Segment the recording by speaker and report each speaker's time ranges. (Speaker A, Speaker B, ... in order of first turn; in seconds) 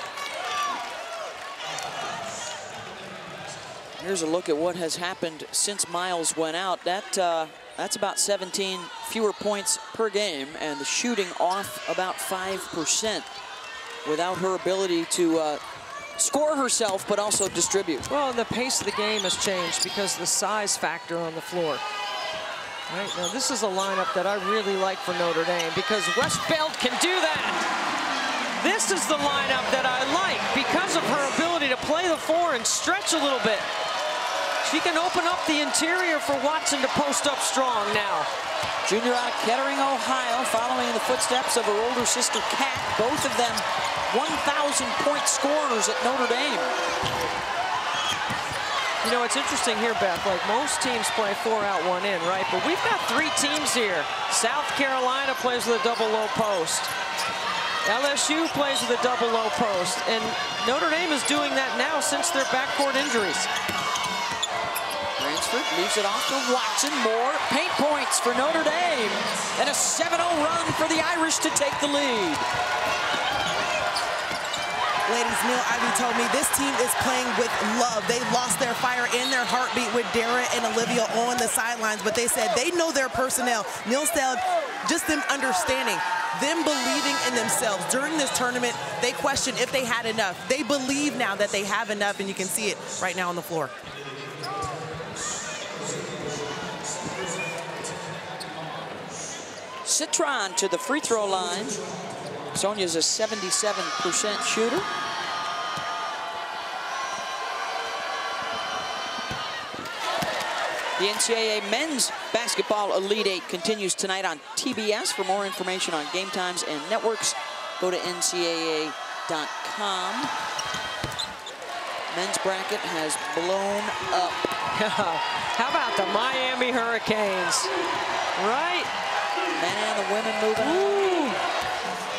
Speaker A: 4.0-13.3, 14.1-15.6, 16.2-18.1, 38.9-46.8, 65.2-72.5, 99.8-101.8, 102.5-104.9, 111.0-120.3, 122.1-124.5, 129.6-131.0
Speaker B: 18.1-21.8, 22.9-27.6, 28.5-33.7, 34.6-38.3, 49.0-56.9, 57.8-63.5, 124.7-127.7, 128.4-128.9, 130.6-131.4
Speaker C: 75.1-93.7